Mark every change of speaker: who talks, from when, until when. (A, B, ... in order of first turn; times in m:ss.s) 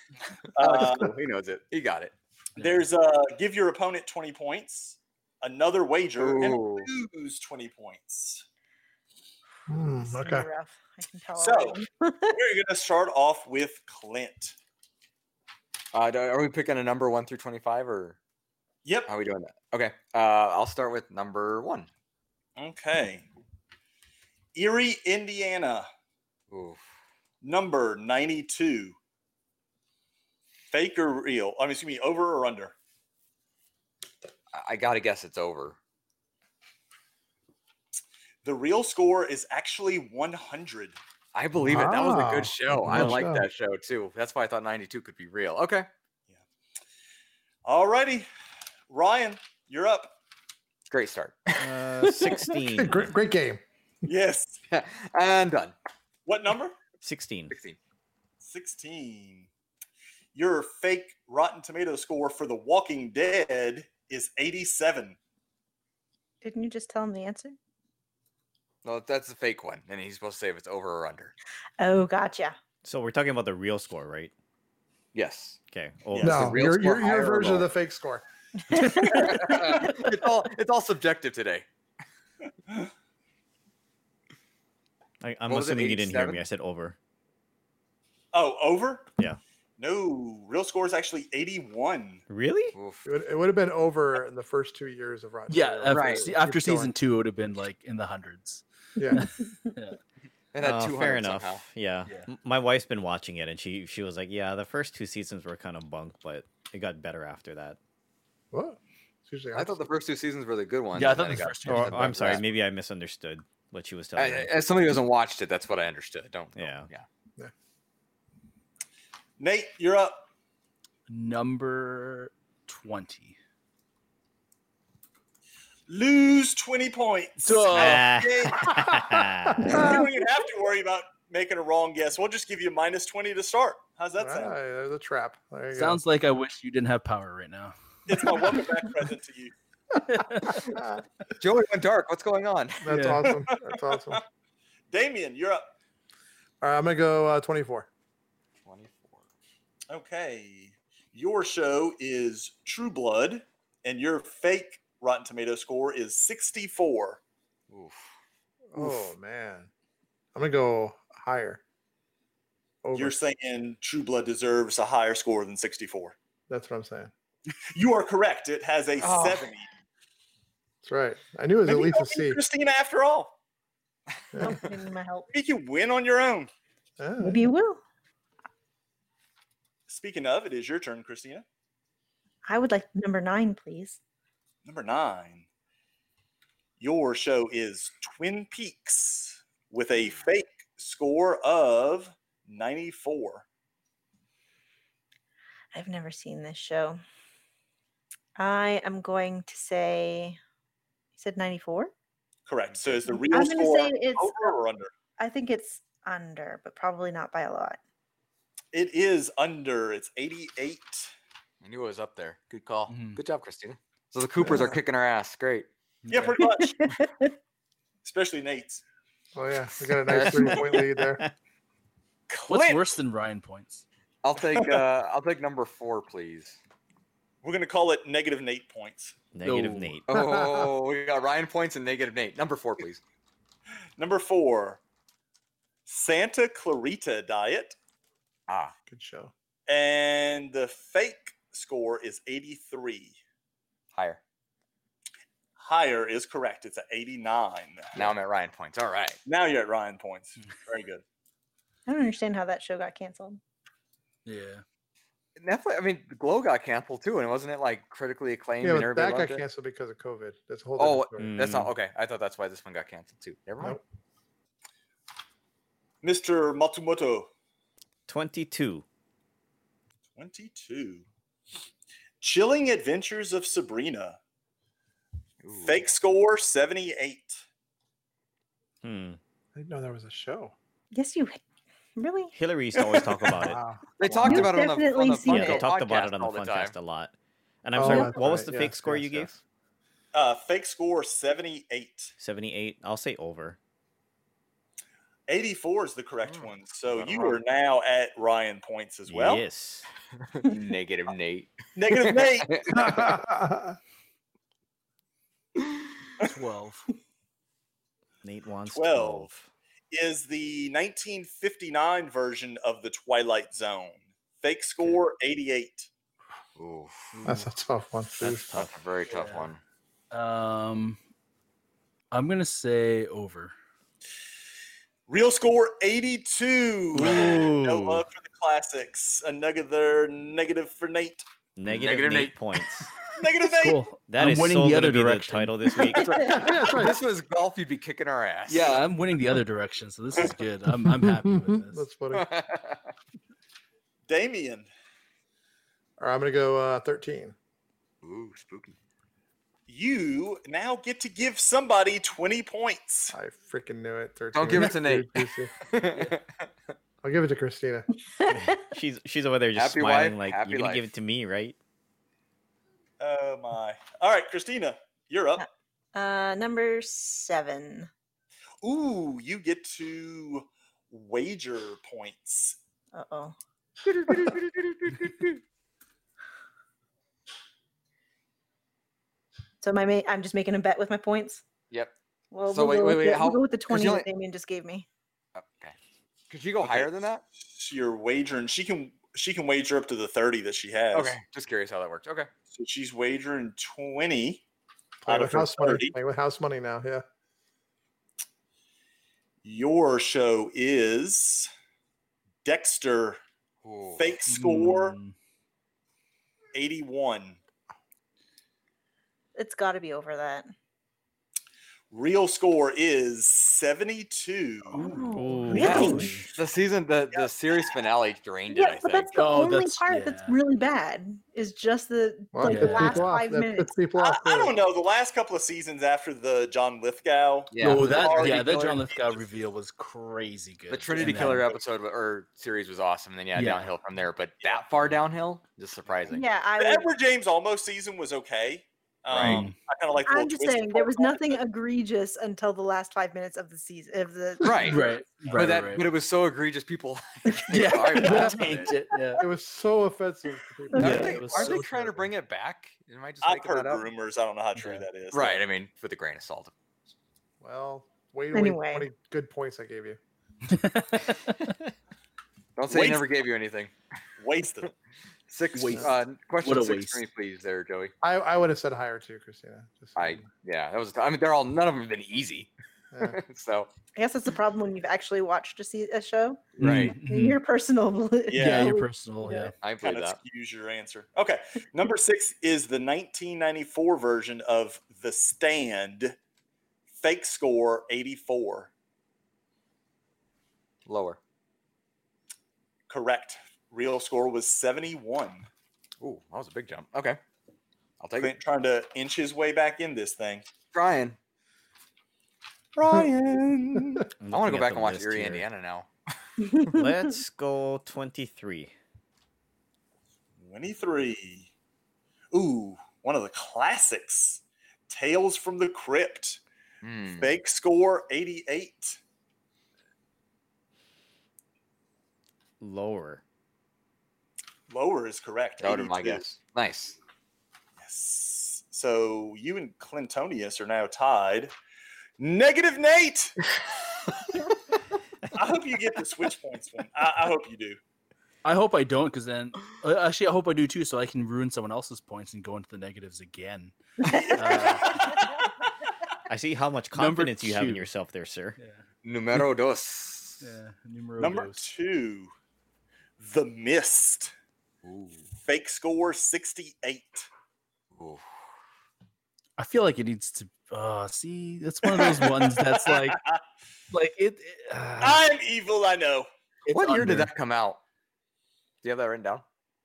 0:00.6-0:01.2 A
0:00.6-0:02.1 B
0:02.6-0:08.4 A
0:06.2-0:06.9 B
0:09.7-0:10.5 C
0:10.0-0:12.4 D
0:11.4-0:11.8 A
0:12.3-0:14.6 A
0:15.9-0:18.2 B
0:18.8-0:19.1 A
0:19.1-0:21.9 B
0:22.6-0:23.3 A
0:24.6-0:25.9 A
0:26.5-0:26.8 B
0:27.4-0:29.0 A
0:30.7-0:32.7 A
0:34.5-0:35.8 B
0:38.4-0:41.0 A
0:41.3-0:45.9 B
0:41.6-0:43.5 C
0:47.6-0:48.3 A
0:48.9-0:50.1 A
0:50.9-0:51.8 B
0:51.6-0:53.1 E
0:52.6-0:53.6 C
0:54.0-0:54.6 A
0:54.7-0:55.8 B
0:56.3-0:56.8 A
0:57.0-0:57.6 E
0:57.5-0:57.8 B
0:58.4-0:59.5 A
1:00.3-1:05.2 A
1:06.4-1:07.6 D
1:08.8-1:11.3 B
1:11.8-1:12.6 D
1:12.8-1:14.3 E
1:15.1-1:15.6 B
1:15.7-1:16.6 E
1:16.2-1:17.7 B
1:16.2-1:18.2 C
1:18.7-1:20.0 D
1:18.8-1:19.2 C
1:18.8-1:21.6 B
1:25.2-1:27.0 E
1:25.5-1:26.4 B
1:28.3-1:29.1 A
1:29.8-1:32.2 A
1:32.3-1:32.8 E
1:32.7-1:33.1 B
1:33.1-1:36.9 C
1:35.5-1:40.0 F
1:35.9-1:36.3 B
1:39.0-1:39.3 C
1:40.5-1:41.6 B
1:40.6-1:47.8 E
1:48.5-1:49.9 C
1:49.5-1:52.4 B
1:51.0-1:52.4 F
1:51.7-1:54.5 E
1:54.2-1:57.1 B
1:56.6-1:56.9 E
1:59.4-2:00.2 A
2:01.1-2:03.4 F
2:05.9-2:08.8 A
2:07.4-2:08.1 F
2:07.7-2:09.9 E
2:08.7-2:10.1 C
2:09.6-2:14.6 A
2:14.2-2:16.0 C
2:15.7-2:17.7 F
2:18.1-2:19.5 A
2:20.1-2:20.7 F
2:20.5-2:21.0 C
2:21.4-2:23.1 B
2:22.8-2:24.2 C
2:22.9-2:23.3 F
2:23.5-2:24.2 A
2:24.9-2:25.7 A
2:26.6-2:27.9 C
2:28.6-2:29.2 B
2:29.9-2:37.2 A
2:37.7-2:38.1 B
2:38.7-2:39.7 C
2:40.4-2:41.6 C
2:42.8-2:43.2 C
2:43.0-2:46.2 A
2:46.5-2:47.1 C
2:47.7-2:49.7 A
2:49.0-2:49.4 B
2:50.8-2:52.4 C
2:51.7-2:53.3 A
2:54.3-2:54.6 C
2:54.4-2:55.3 D
2:55.3-2:56.5 A
2:57.0-2:57.5 C
2:57.2-2:57.8 D
2:59.9-3:01.4 A
3:02.4-3:04.0 D
3:04.6-3:05.5 A
3:06.8-3:13.4 A
3:15.7-3:17.0 D
3:18.4-3:20.4 D
3:21.2-3:21.9 D
3:22.5-3:24.9 A
3:23.1-3:24.6 D
3:25.2-3:27.8 D
3:28.7-3:31.1 A
3:31.6-3:35.7 B
3:32.9-3:33.2 F
3:34.4-3:34.8 C
3:36.1-3:36.4 F
3:36.1-3:36.9 A
3:36.4-3:37.3 D
3:38.0-3:38.8 A
3:39.4-3:41.2 C
3:40.1-3:40.9 B
3:42.3-3:43.0 A
3:42.5-3:43.8 F
3:44.2-3:46.6 B
3:44.6-3:44.8 A
3:47.4-3:49.2 A
3:49.3-3:50.1 E
3:49.4-3:50.0 F
3:50.1-3:53.0 B
3:50.1-3:50.8 C
3:54.0-3:54.8 A
3:55.9-3:57.8 A
3:58.5-3:58.7 B
3:58.9-3:59.3 C
3:59.7-4:03.2 A
4:03.9-4:04.2 B
4:05.6-4:08.1 A
4:08.0-4:09.2 B
4:09.3-4:11.0 A
4:11.9-4:13.4 D
4:14.2-4:14.6 F
4:15.4-4:19.4 B
4:18.6-4:21.3 C
4:20.8-4:23.8 B
4:21.2-4:21.7 E
4:26.0-4:27.3 A
4:28.1-4:28.8 E
4:30.2-4:31.1 A
4:32.2-4:34.2 A
4:35.4-4:35.9 B
4:35.6-4:37.4 A
4:38.8-4:39.2 E
4:39.6-4:40.5 C
4:40.9-4:41.4 D
4:42.0-4:42.4 D
4:42.4-4:43.6 E
4:42.8-4:43.3 A
4:43.4-4:44.5 C
4:44.0-4:46.8 B
4:44.2-4:45.7 D
4:45.2-4:47.1 E
4:47.6-4:49.3 E
4:47.8-4:49.4 C
4:47.8-4:48.1 D
4:50.1-4:52.1 A
4:52.2-4:53.6 E
4:55.3-4:59.4 A
4:56.3-4:57.4 B
4:59.1-4:59.9 E
5:00.3-5:03.2 B
5:01.8-5:02.7 A
5:02.7-5:03.8 C
5:05.6-5:05.9 B
5:06.2-5:06.9 F
5:08.2-5:09.5 E
5:08.7-5:09.3 A
5:09.9-5:15.9 A
5:16.6-5:17.2 B
5:17.2-5:18.5 C
5:18.2-5:18.8 E
5:18.5-5:19.6 B
5:19.1-5:19.5 F
5:20.1-5:21.0 F
5:22.1-5:23.5 F
5:25.1-5:31.2 A
5:26.9-5:28.1 E
5:27.0-5:27.5 F
5:31.6-5:32.9 E
5:31.7-5:32.4 B
5:33.2-5:33.9 A
5:33.5-5:35.6 F
5:34.0-5:36.4 E
5:35.9-5:38.8 B
5:36.3-5:37.0 C
5:38.5-5:41.9 F
5:40.8-5:42.3 C
5:42.1-5:42.9 B
5:44.1-5:44.7 A
5:46.0-5:47.4 C
5:48.0-5:48.8 B
5:49.7-5:53.2 A
5:53.1-5:55.5 C
5:54.3-5:56.5 B
5:57.0-5:57.9 C
5:58.1-5:58.6 D
5:58.3-6:01.6 E
5:59.6-6:00.9 B
6:03.0-6:05.5 A
6:05.4-6:07.9 D
6:08.6-6:12.6 A
6:12.9-6:13.4 D
6:14.0-6:15.4 B
6:19.6-6:21.4 D
6:22.3-6:24.9 D
6:22.5-6:24.1 B
6:25.4-6:25.8 B
6:26.3-6:27.2 B
6:26.6-6:26.9 A
6:27.4-6:31.2 A
6:30.9-6:32.3 B
6:32.5-6:34.4 A
6:35.0-6:37.0 C
6:35.1-6:36.0 A
6:39.4-6:41.5 A
6:42.4-6:43.2 A
6:43.6-6:44.1 B
6:44.0-6:45.0 A
6:44.3-6:45.2 F
6:46.5-6:47.4 A
6:49.4-6:50.5 D
6:51.9-6:55.0 A
6:54.7-6:56.3 F
6:54.8-6:56.2 D
6:55.1-6:56.0 E
6:55.6-6:59.1 B
6:58.5-7:03.7 D
6:59.2-7:00.4 F
7:02.3-7:04.6 C
7:02.4-7:03.1 F
7:04.0-7:08.8 A
7:07.5-7:08.8 B
7:07.6-7:11.5 F
7:10.7-7:16.2 B
7:11.0-7:11.6 A
7:13.3-7:13.7 F
7:14.4-7:14.9 A
7:16.1-7:16.9 D
7:16.6-7:21.4 A
7:19.1-7:19.5 B
7:19.2-7:19.6 F
7:20.0-7:24.9 D
7:24.4-7:28.7 B
7:24.6-7:25.8 F
7:27.5-7:29.2 F
7:28.0-7:28.7 C
7:29.2-7:31.7 C
7:30.8-7:33.9 B
7:30.8-7:31.0 D
7:30.8-7:32.1 F
7:33.2-7:35.4 A
7:34.6-7:34.8 F
7:35.1-7:36.5 B
7:37.4-7:40.0 C
7:38.3-7:38.9 D
7:40.5-7:41.6 F
7:42.6-7:43.7 B
7:42.7-7:43.1 A
7:44.2-7:44.7 A
7:45.3-7:47.9 B
7:45.6-7:47.0 F
7:48.0-7:50.3 C
7:50.0-7:53.7 B
7:52.9-7:53.2 C
7:54.0-7:59.5 D
7:56.6-7:57.0 B
7:56.6-7:57.4 F
7:58.3-7:58.7 A
7:58.4-7:59.5 F
7:59.6-8:00.2 B
7:59.8-8:06.2 A
8:07.0-8:08.7 A
8:10.9-8:11.2 B
8:12.9-8:15.5 A
8:16.0-8:17.2 B
8:18.0-8:18.3 B
8:18.2-8:20.5 A
8:20.7-8:21.2 B
8:22.8-8:24.1 A
8:24.2-8:25.5 E
8:24.3-8:25.9 B
8:26.4-8:26.9 D
8:26.7-8:28.7 E
8:30.4-8:31.5 A
8:32.3-8:36.4 A
8:36.8-8:37.3 B
8:37.1-8:39.0 A
8:42.6-8:43.2 E
8:44.7-8:46.3 A
8:45.6-8:47.0 B
8:47.8-8:51.5 A
8:52.2-8:53.4 A
8:55.3-8:57.8 A
8:58.4-9:03.8 F
9:04.0-9:04.3 D
9:04.1-9:05.4 A
9:04.3-9:05.2 F
9:06.3-9:08.6 E
9:06.9-9:07.9 F
9:08.6-9:08.8 F
9:09.0-9:10.5 B
9:10.4-9:11.7 F
9:11.2-9:12.3 A
9:13.2-9:14.3 A
9:14.8-9:15.3 B
9:15.4-9:17.3 A
9:18.0-9:18.2 B
9:19.6-9:23.2 F
9:21.9-9:23.4 A
9:23.9-9:25.2 F
9:25.0-9:26.3 A
9:26.7-9:27.8 B
9:26.7-9:27.3 F
9:28.8-9:29.4 B